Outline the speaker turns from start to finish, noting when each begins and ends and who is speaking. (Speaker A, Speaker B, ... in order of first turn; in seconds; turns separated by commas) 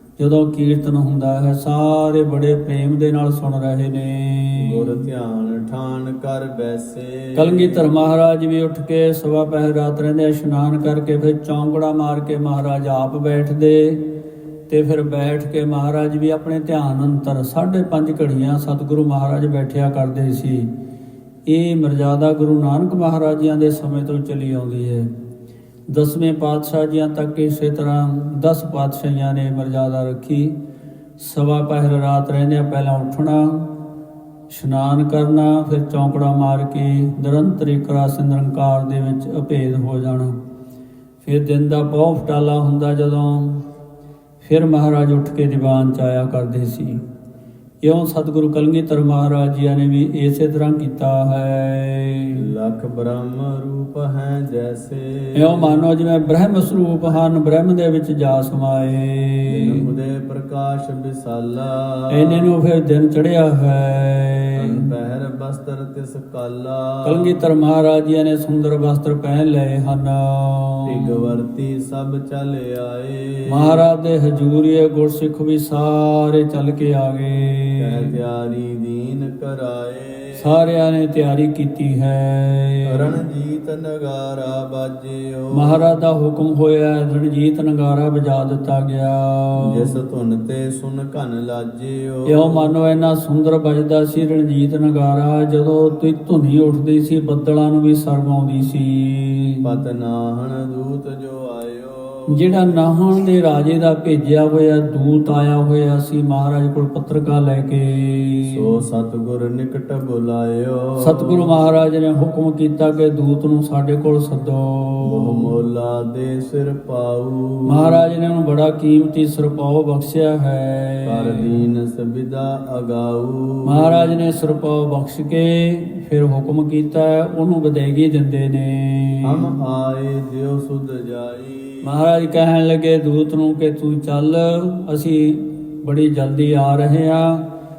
Speaker A: 0.2-5.0, Speaker B: 4.5-7.9, Speaker A: 7.3-14.0, Speaker A: 14.7-20.7, Speaker A: 21.5-25.1, Speaker A: 25.9-30.6, Speaker A: 31.2-33.7, Speaker A: 34.5-40.4, Speaker A: 41.2-43.6, Speaker A: 44.4-47.0, Speaker A: 47.8-52.5, Speaker B: 52.3-55.8, Speaker A: 55.4-59.9, Speaker B: 59.5-62.6, Speaker A: 62.1-64.9, Speaker B: 64.5-67.4, Speaker A: 67.0-71.3, Speaker B: 70.9-73.8, Speaker A: 73.5-78.1, Speaker B: 77.8-80.6, Speaker A: 80.4-83.2, Speaker B: 82.9-85.8, Speaker A: 85.5-89.9, Speaker B: 89.6-92.7, Speaker A: 92.3-99.7, Speaker B: 99.6-102.8, Speaker A: 102.3-108.7, Speaker B: 108.5-111.5, Speaker A: 111.0-115.5, Speaker B: 115.0-118.0, Speaker A: 117.7-121.5, Speaker B: 121.0-124.1, Speaker A: 123.7-129.5, Speaker B: 129.2-132.0, Speaker A: 131.8-137.4